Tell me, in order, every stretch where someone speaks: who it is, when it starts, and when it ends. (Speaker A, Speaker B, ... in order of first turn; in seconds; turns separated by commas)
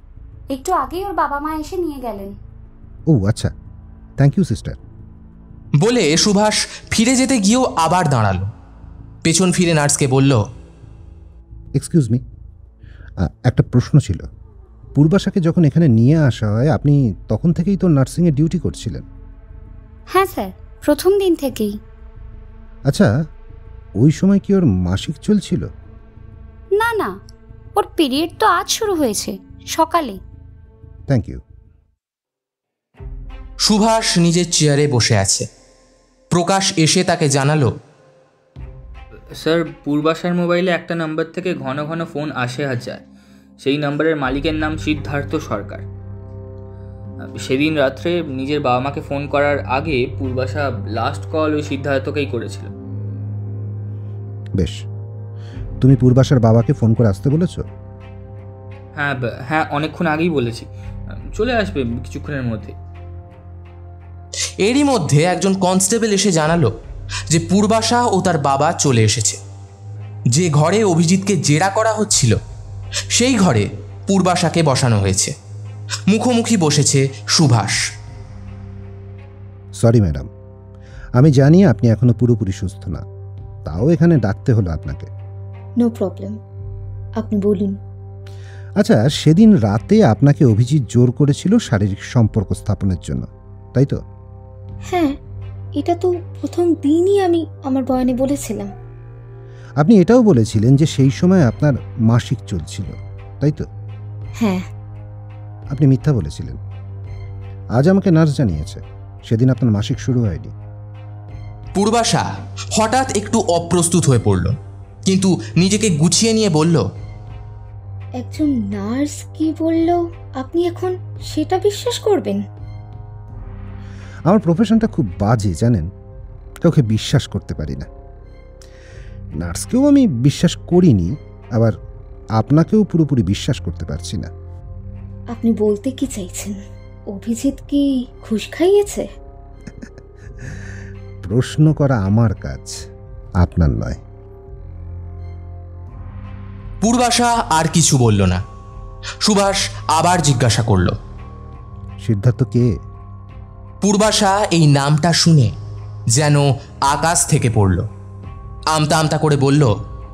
Speaker A: 0.5-2.3, Speaker B: 3.1-3.5, Speaker B: 4.2-4.8, Speaker C: 5.8-8.5, Speaker C: 9.2-10.4, Speaker B: 11.7-12.2, Speaker B: 13.2-14.2, Speaker B: 14.9-19.1, Speaker A: 20.1-21.8, Speaker B: 24.0-25.7, Speaker A: 26.8-27.2, Speaker A: 27.8-30.2, Speaker B: 31.1-31.4, Speaker C: 33.6-35.5, Speaker C: 36.3-37.7, Speaker D: 39.4-43.0, Speaker D: 43.6-45.8, Speaker D: 47.3-52.7, Speaker B: 55.8-57.6, Speaker D: 59.0-60.7, Speaker D: 61.3-62.8, Speaker C: 64.6-66.7, Speaker C: 67.3-69.4, Speaker C: 70.3-72.3, Speaker C: 73.1-75.3, Speaker C: 76.1-77.8, Speaker B: 79.8-80.3, Speaker B: 81.2-83.0, Speaker B: 83.7-85.1, Speaker E: 85.8-86.4, Speaker E: 87.2-87.8, Speaker B: 88.8-94.0, Speaker E: 94.9-95.2, Speaker E: 95.8-98.7, Speaker B: 99.8-103.7, Speaker E: 104.4-104.7, Speaker B: 105.7-106.6, Speaker B: 107.8-110.5, Speaker C: 111.8-114.5, Speaker C: 115.1-116.8, Speaker E: 118.2-122.4, Speaker B: 124.3-125.9, Speaker B: 126.6-127.9, Speaker B: 129.4-131.7, Speaker B: 132.4-134.3, Speaker E: 135.3-136.6, Speaker E: 137.1-139.1, Speaker B: 141.2-142.8, Speaker B: 143.4-144.0, Speaker C: 146.8-148.4, Speaker C: 149.2-150.9, Speaker B: 152.0-152.7, Speaker C: 153.8-155.5, Speaker C: 156.1-157.8, Speaker C: 158.7-159.7